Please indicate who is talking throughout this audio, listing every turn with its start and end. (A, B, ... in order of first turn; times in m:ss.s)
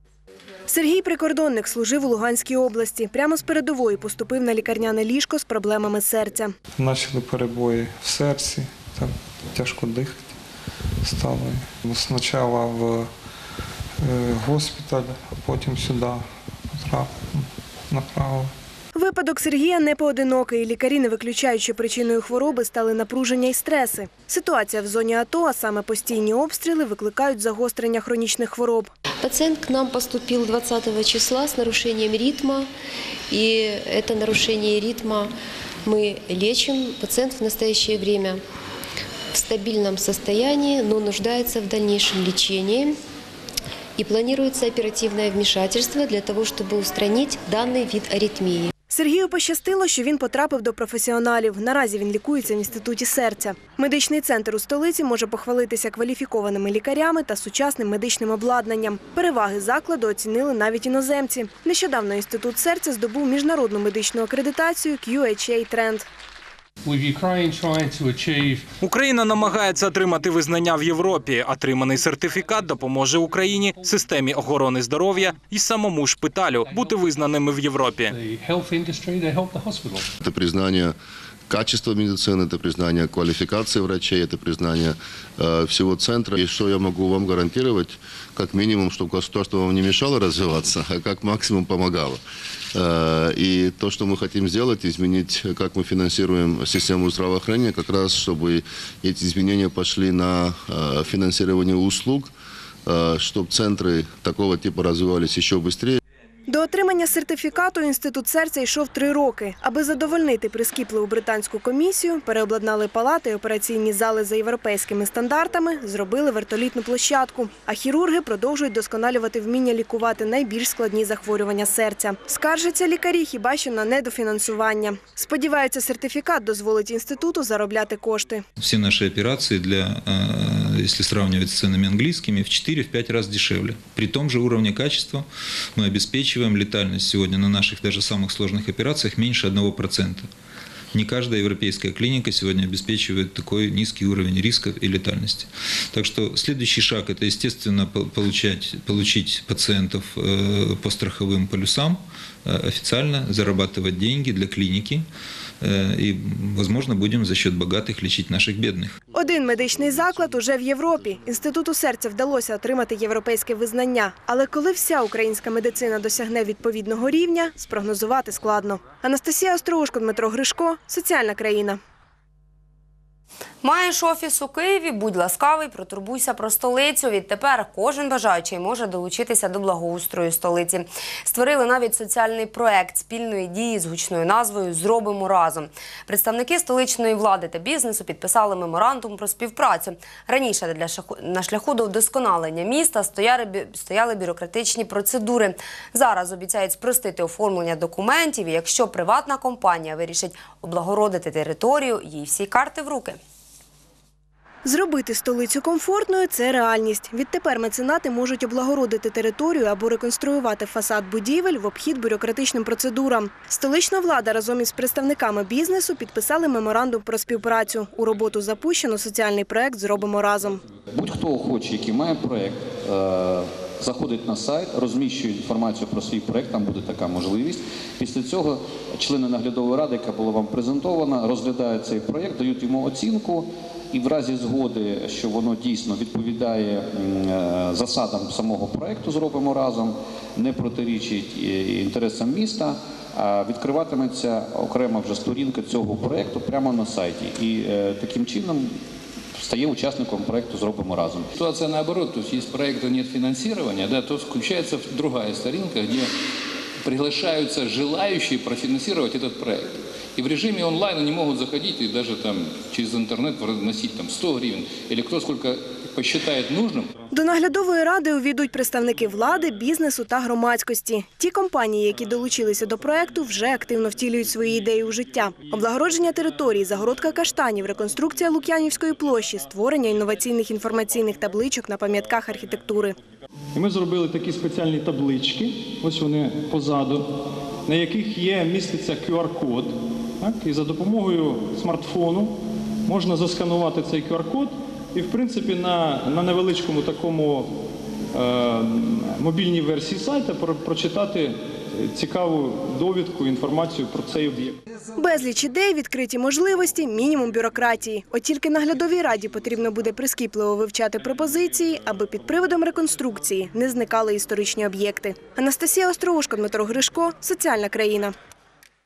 0:00.7-0:06.5 A
0:06.8-0:10.3 B
0:11.0-0:13.1 B
0:14.0-0:18.5 B
0:18.9-0:28.9 A
0:29.2-0:32.7 C
0:33.3-0:35.3 C
0:35.8-0:38.4 C
0:39.3-0:43.0 C
0:44.0-0:48.7 C
0:48.9-1:06.1 A
1:06.8-1:08.6 D
1:08.8-1:18.1 E
1:09.3-1:10.2 D
1:10.9-1:11.3 D
1:11.9-1:14.2 D
1:16.6-1:17.3 D
1:18.1-1:20.1 D
1:20.2-1:20.9 F
1:21.5-1:32.2 F
1:32.7-1:42.3 F
1:42.9-1:46.0 F
1:46.5-2:08.4 A
2:08.6-2:20.3 G
2:20.9-2:35.1 G
2:35.6-2:39.0 G
2:39.1-2:51.8 A
2:53.6-3:23.2 H
3:24.6-3:40.6 A
3:40.9-4:08.8 I
4:09.4-4:11.3 I
4:11.4-4:16.1 D
4:16.8-4:26.9 D
4:27.1-4:43.0 A
4:43.5-4:57.6 J
4:58.1-5:04.6 J
5:05.0-5:18.1 A